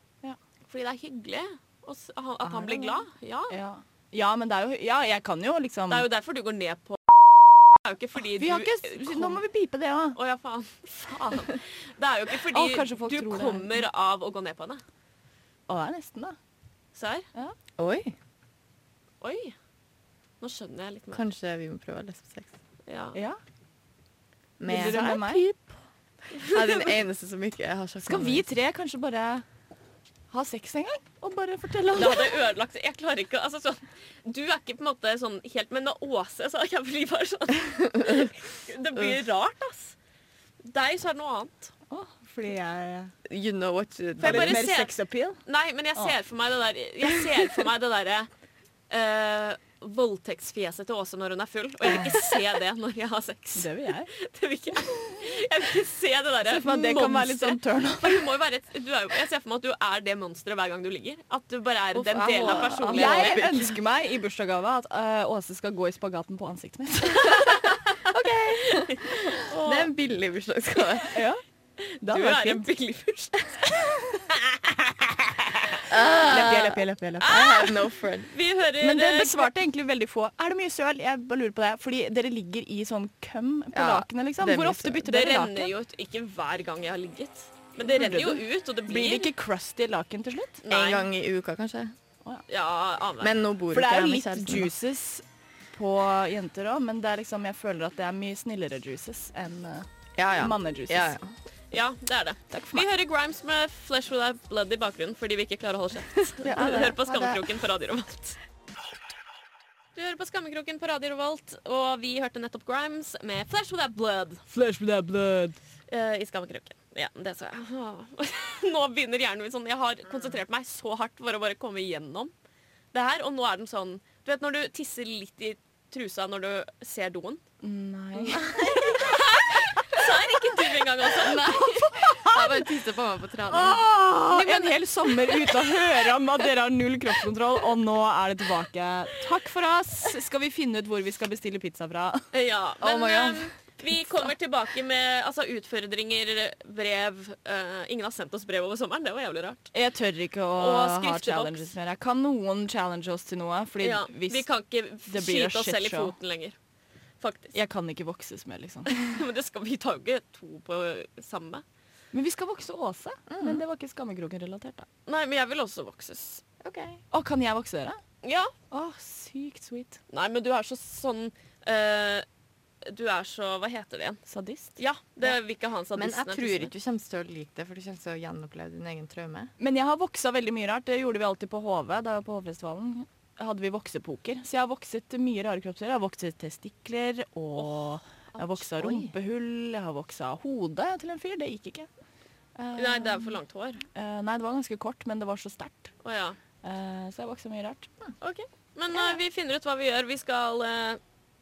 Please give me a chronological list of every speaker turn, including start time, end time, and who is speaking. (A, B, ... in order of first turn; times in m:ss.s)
0:00.6-0:03.6 A
0:03.5-0:06.1 B
0:05.9-0:07.1 A
0:07.7-0:09.4 A
0:08.2-0:10.2 B
0:10.1-0:14.8 A
0:12.5-0:13.8 B
0:15.7-0:16.4 B
0:16.9-0:17.3 A
0:17.8-0:18.1 C
0:19.2-0:19.5 A
0:20.4-0:21.2 A
0:21.1-0:22.5 C
0:22.8-0:23.2 A
0:24.6-0:25.6 C
0:24.6-0:25.4 B
0:26.3-0:26.8 A
0:26.4-0:28.4 C
0:28.0-0:29.4 B
0:30.3-0:32.3 B
0:31.9-0:40.0 A
0:40.6-0:41.7 A
0:41.9-0:43.1 B
0:43.3-0:44.6 C
0:44.2-0:45.4 B
0:44.2-0:44.9 A
0:45.4-0:48.3 A
0:48.9-1:03.4 A
0:51.9-0:52.2 B
0:53.6-0:54.1 B
0:56.4-0:58.3 B
1:01.9-1:03.8 C
1:02.4-1:07.6 B
1:07.2-1:07.9 A
1:08.0-1:11.2 C
1:08.6-1:09.9 A
1:11.1-1:11.4 B
1:12.0-1:12.6 B
1:12.0-1:13.6 A
1:15.5-1:17.6 B
1:15.9-1:18.3 C
1:17.2-1:19.5 A
1:18.8-1:25.7 B
1:23.7-1:25.0 C
1:25.0-1:29.3 A
1:27.9-1:30.6 B
1:30.6-1:31.0 A
1:30.7-1:31.9 C
1:32.5-1:33.4 A
1:33.2-1:34.7 C
1:33.7-1:41.1 B
1:40.2-1:41.3 C
1:41.7-1:48.4 A
1:42.5-1:42.8 B
1:46.2-1:47.4 C
1:46.4-1:46.8 B
1:50.0-1:54.4 A
1:54.5-1:55.6 B
1:55.9-2:02.3 A
2:02.9-2:07.4 A
2:07.6-2:09.0 B
2:08.3-2:09.0 C
2:08.4-2:11.8 A
2:11.2-2:13.8 C
2:11.4-2:12.8 B
2:13.5-2:22.3 B
2:14.3-2:16.2 A
2:22.3-2:29.7 A
2:22.8-2:23.5 C
2:29.7-2:34.5 B
2:30.6-2:31.7 A
2:33.8-2:36.6 A
2:35.1-2:36.1 B
2:37.2-2:37.5 A
2:37.5-2:39.0 B
2:38.9-2:41.6 A
2:42.1-2:44.9 B
2:43.3-2:43.6 C
2:45.0-2:46.4 A
2:46.6-2:47.0 C
2:47.1-2:48.0 B
2:48.2-2:48.5 A
2:48.7-2:50.0 B
2:50.1-2:52.2 A
2:52.8-2:54.2 A
2:54.3-2:54.7 B
2:54.8-2:56.7 A
2:55.9-2:59.5 C
2:59.6-3:11.9 B
3:08.3-3:09.1 C
3:12.6-3:13.4 B
3:12.7-3:13.8 A
3:13.9-3:15.9 B
3:16.0-3:16.4 A
3:16.6-3:17.9 B
3:18.2-3:21.0 A